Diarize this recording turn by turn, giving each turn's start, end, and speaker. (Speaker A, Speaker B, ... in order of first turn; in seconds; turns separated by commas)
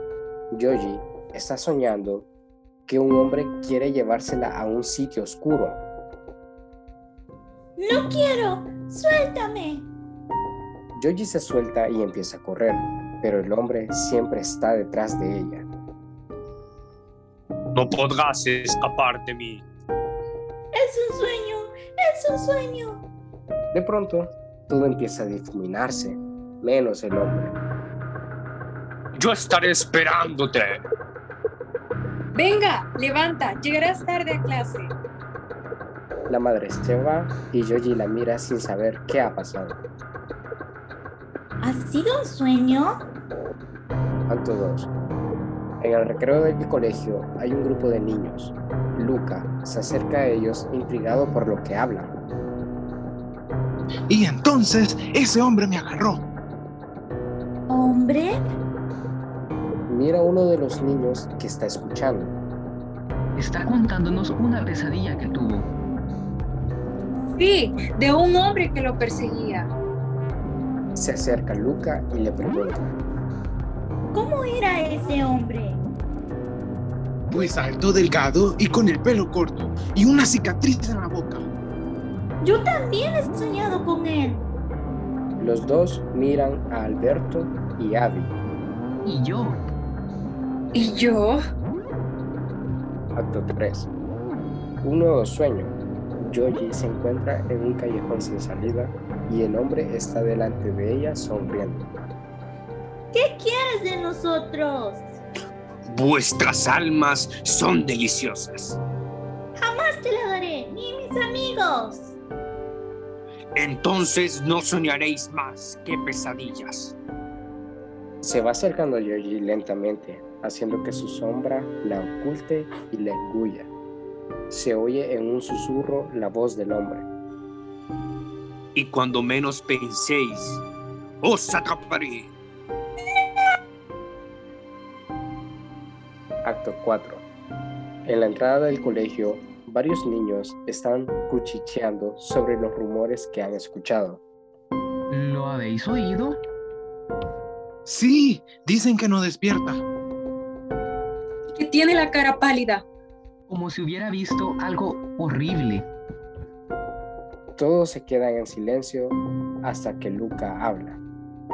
Speaker A: 0.5-2.3, Speaker A: 2.9-5.8, Speaker B: 7.8-9.9, Speaker A: 10.9-15.7, Speaker C: 17.8-19.6, Speaker B: 20.8-23.1, Speaker A: 23.7-27.6, Speaker C: 29.1-30.8, Speaker D: 32.3-34.9, Speaker A: 36.3-39.8, Speaker B: 41.6-43.0, Speaker A: 44.3-44.9, Speaker A: 45.8-52.1, Speaker E: 54.1-56.2, Speaker B: 57.7-58.4, Speaker A: 59.9-62.4, Speaker F: 63.4-65.7, Speaker D: 67.4-69.7, Speaker A: 71.0-73.0, Speaker B: 74.1-75.8, Speaker E: 77.3-81.5, Speaker B: 82.4-84.5, Speaker A: 85.4-88.3, Speaker F: 89.0-89.6, Speaker D: 90.7-91.4, Speaker A: 93.2-93.9, Speaker A: 94.8-102.0, Speaker B: 103.1-105.0, Speaker C: 105.9-108.8, Speaker B: 109.6-112.2, Speaker C: 113.5-117.0, Speaker A: 118.2-123.7, Speaker A: 124.5-127.1, Speaker C: 128.8-130.6, Speaker C: 131.2-132.3, Speaker A: 136.4-137.2, Speaker A: 138.1-144.2, Speaker F: 145.1-146.4, Speaker E: 147.8-149.8, Speaker D: 151.5-152.8, Speaker F: 153.5-155.9, Speaker A: 157.6-161.0